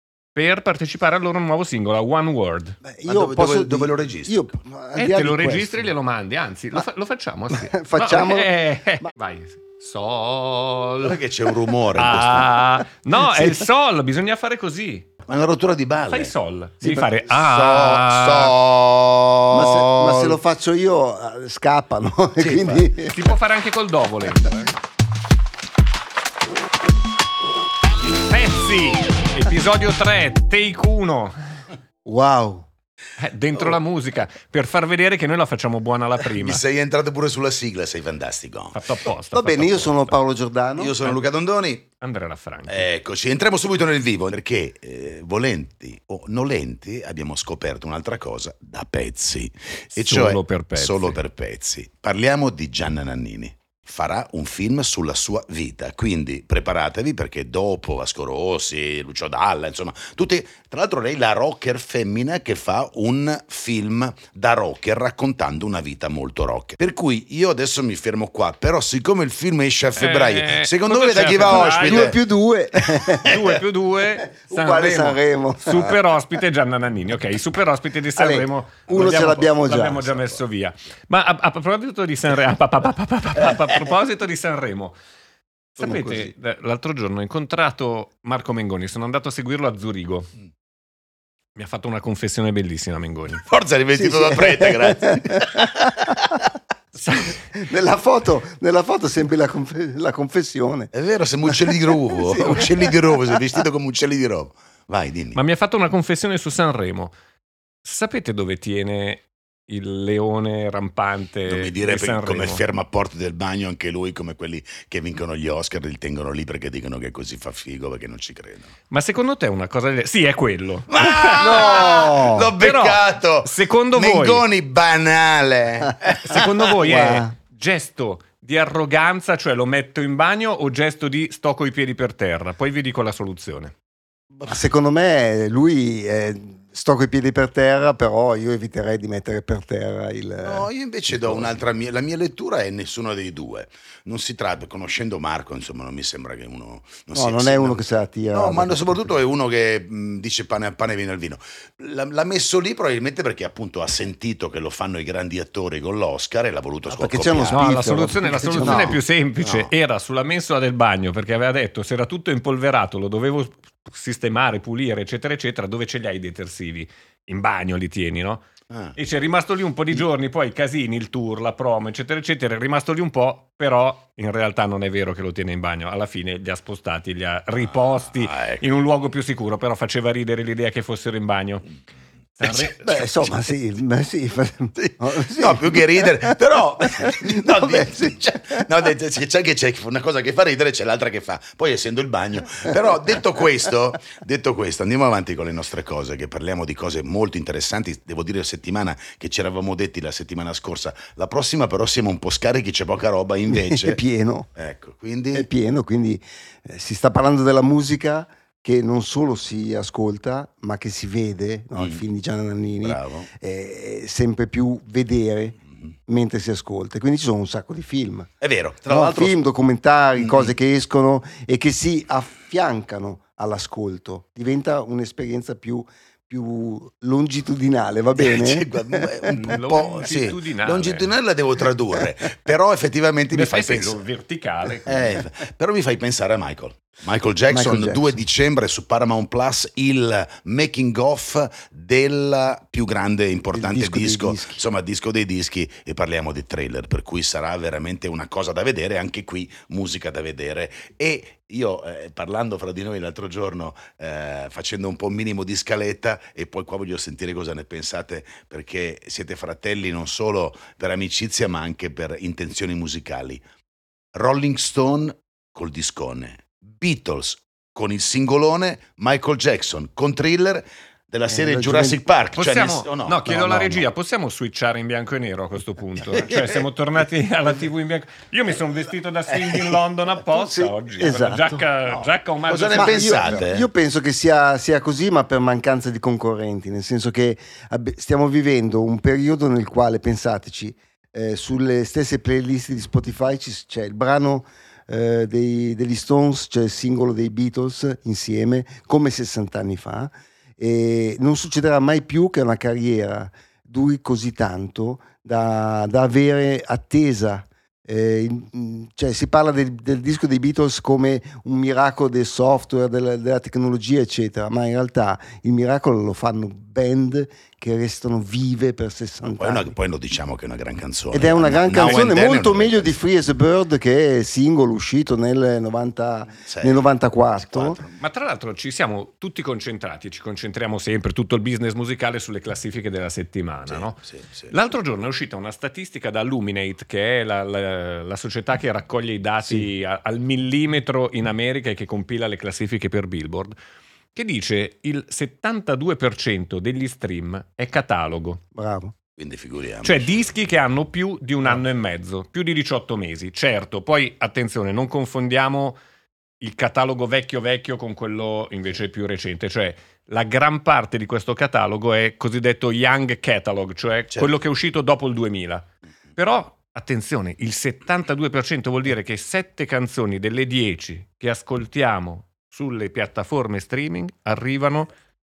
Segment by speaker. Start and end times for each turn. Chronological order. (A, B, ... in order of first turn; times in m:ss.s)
0:00.3-0:02.8 A
0:02.8-0:05.9 B
0:03.1-0:04.4 C
0:05.0-0:11.2 A
0:07.5-0:08.5 B
0:11.0-0:12.6 C
0:12.0-0:15.1 A
0:13.2-0:13.7 B
0:15.2-0:16.3 C
0:16.1-0:18.5 A
0:16.9-0:20.4 C
0:19.5-0:23.1 B
0:22.4-0:22.9 C
0:23.0-0:24.7 A
0:28.1-0:31.6 A
0:32.0-0:32.7 B
0:33.2-0:36.6 A
0:36.4-0:38.8 C
0:38.7-0:40.2 A
0:39.3-0:41.0 B
0:40.8-0:41.8 C
0:42.0-0:42.8 A
0:42.7-1:12.2 C
0:50.0-0:51.2 A
1:10.0-1:12.1 A
1:11.5-1:13.6 B
1:12.9-1:13.5 C
1:13.2-1:25.0 A
1:14.4-1:16.0 B
1:18.2-1:20.1 B
1:25.8-1:26.3 B
1:25.8-1:30.3 A
1:31.6-1:33.4 A
1:33.4-1:36.4 C
1:34.0-1:36.4 B
1:37.0-1:37.4 A
1:37.5-1:40.9 B
1:40.9-1:45.4 C
1:41.5-1:43.6 B
1:45.3-1:47.1 A
1:47.8-1:52.6 A
1:51.5-1:58.7 C
1:58.9-2:02.0 A
2:00.9-2:06.7 C
2:01.4-2:02.5 B
2:02.6-2:04.4 A
2:06.2-2:13.7 A
2:06.8-2:07.3 B
2:14.3-2:14.6 C
2:14.5-2:21.5 B
2:20.4-2:27.8 C
2:27.1-2:29.1 B
2:28.3-2:37.6 C
2:36.9-2:39.0 B
2:37.5-2:48.4 A
2:38.6-2:39.7 C
2:48.7-2:49.0 C
2:49.0-3:01.7 A
2:58.2-2:58.6 C
3:02.4-3:02.8 A
3:02.4-3:03.5 C
3:02.7-3:08.6 B
3:04.8-3:24.0 C
3:23.5-3:24.5 B
3:24.6-3:25.5 C
3:25.3-3:38.3 B
3:31.8-3:32.0 C
3:32.8-3:33.3 C
3:38.4-3:39.4 C
3:38.9-3:49.3 B
3:40.2-3:40.5 C
3:48.2-3:54.0 C
3:49.3-3:51.1 A
3:53.3-3:55.0 A
3:54.9-3:55.3 B
3:54.9-4:23.4 C
3:57.5-3:58.2 B
4:03.5-4:04.6 B
4:24.1-4:33.8 C
4:31.3-4:32.0 B
4:32.4-4:43.4 A
4:36.1-4:36.6 C
4:40.3-4:41.6 B
4:41.9-4:43.7 C
4:42.7-5:19.8 B
5:19.4-5:22.9 C
5:21.1-5:27.8 B
5:26.5-5:26.8 C
5:27.4-5:28.0 C
5:28.0-5:34.0 A
5:33.7-5:34.5 C
5:34.5-5:43.6 A
5:44.1-5:48.4 A
5:48.6-5:48.9 B
5:49.2-5:50.1 C
5:49.8-5:55.8 A
5:56.4-6:14.9 A